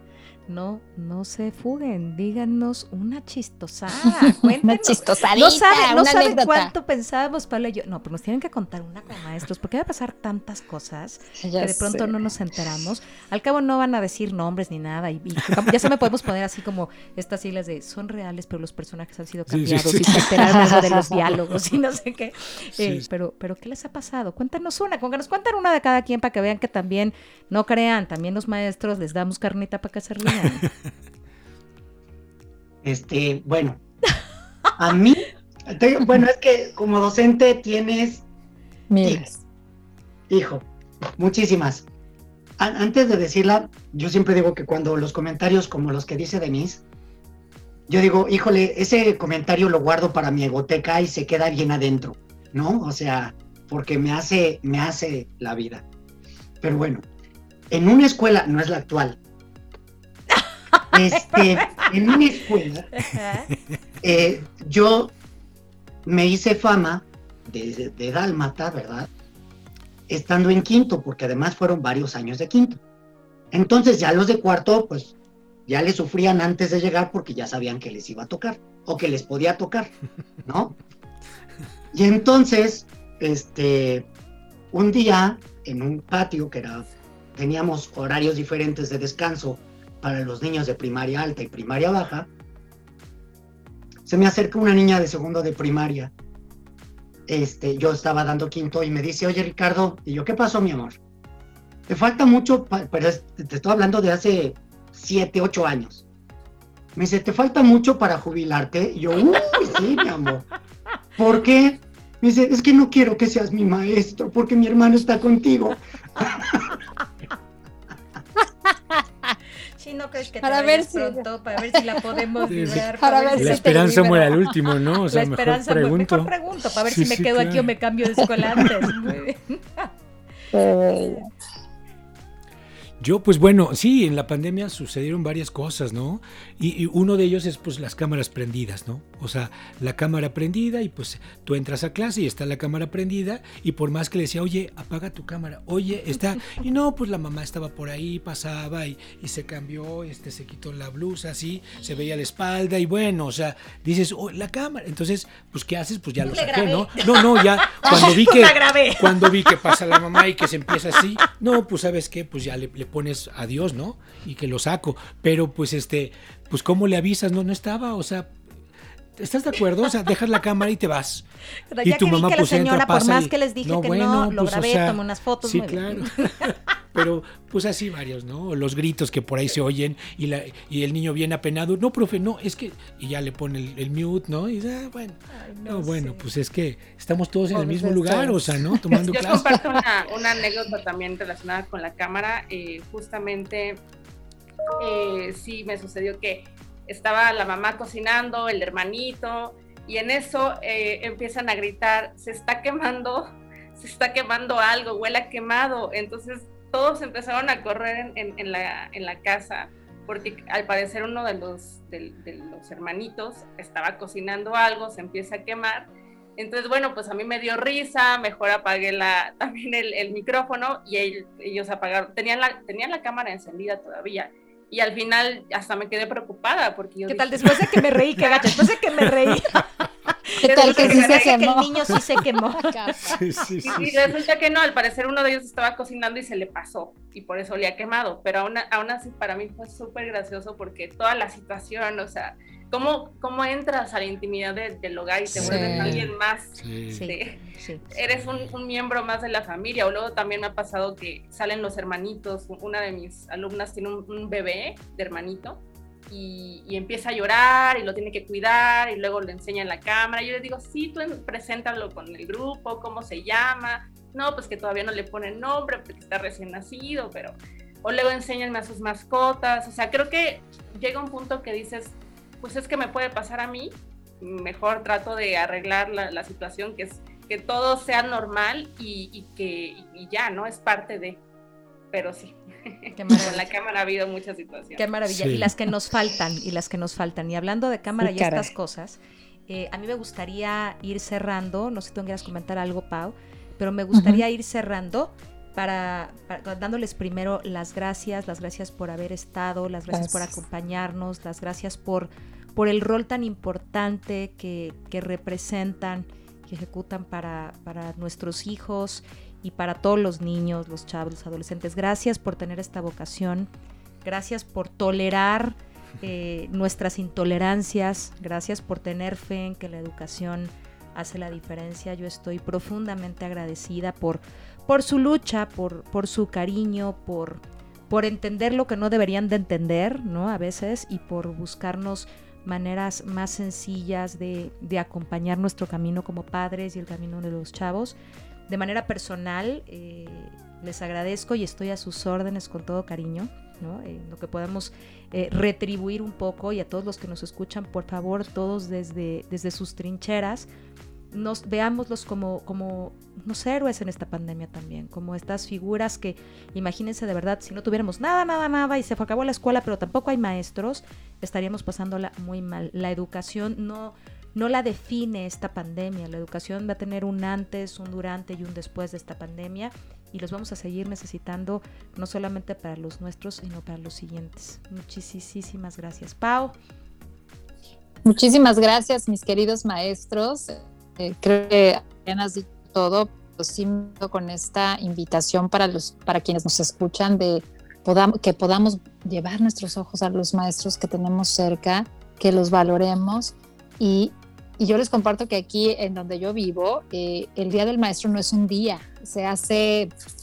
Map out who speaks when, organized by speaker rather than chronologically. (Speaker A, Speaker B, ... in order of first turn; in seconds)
Speaker A: 0.5-30.6, 60.7-61.9, 63.0-63.5, 119.8-124.2, 125.1-129.9, 131.0-131.2, 156.2-159.8, 171.7-176.5, 185.3-186.3, 227.1-229.7, 230.3-233.2, 246.9-247.8, 282.9-283.5, 284.8-313.5, 314.0-337.9, 338.5-350.5, 351.1-376.6
Speaker B: 4.5-6.7, 11.4-12.2, 20.1-21.2, 38.9-39.4, 120.4-121.2, 121.7-124.5, 130.5-131.3, 187.5-189.1, 230.4-233.4, 245.3-246.1, 288.0-288.5, 293.9-294.2, 299.9-300.3, 378.0-399.9
Speaker C: 19.5-20.6, 22.8-23.1, 122.5-126.3, 126.8-127.7, 128.6-128.8, 133.0-168.4, 169.2-171.2, 171.8-189.5, 233.1-234.1, 245.3-247.1, 248.1-248.5, 285.1-285.5
Speaker D: 32.8-33.8, 34.8-38.2, 40.3-40.6, 41.2-41.9, 42.6-46.8, 47.9-55.8, 56.6-57.0, 57.7-59.2, 60.9-62.9, 64.0-65.1, 66.0-69.1, 70.1-72.8, 73.5-75.1, 75.7-79.9, 80.5-80.8, 81.9-84.1, 84.7-92.3, 94.0-96.1, 97.3-101.0, 101.9-106.0, 107.0-110.5, 111.2-116.7
Speaker E: 189.1-193.8, 194.8-227.5, 228.2-228.6, 230.4-231.4, 233.6-247.3, 247.9-281.2, 281.9-284.9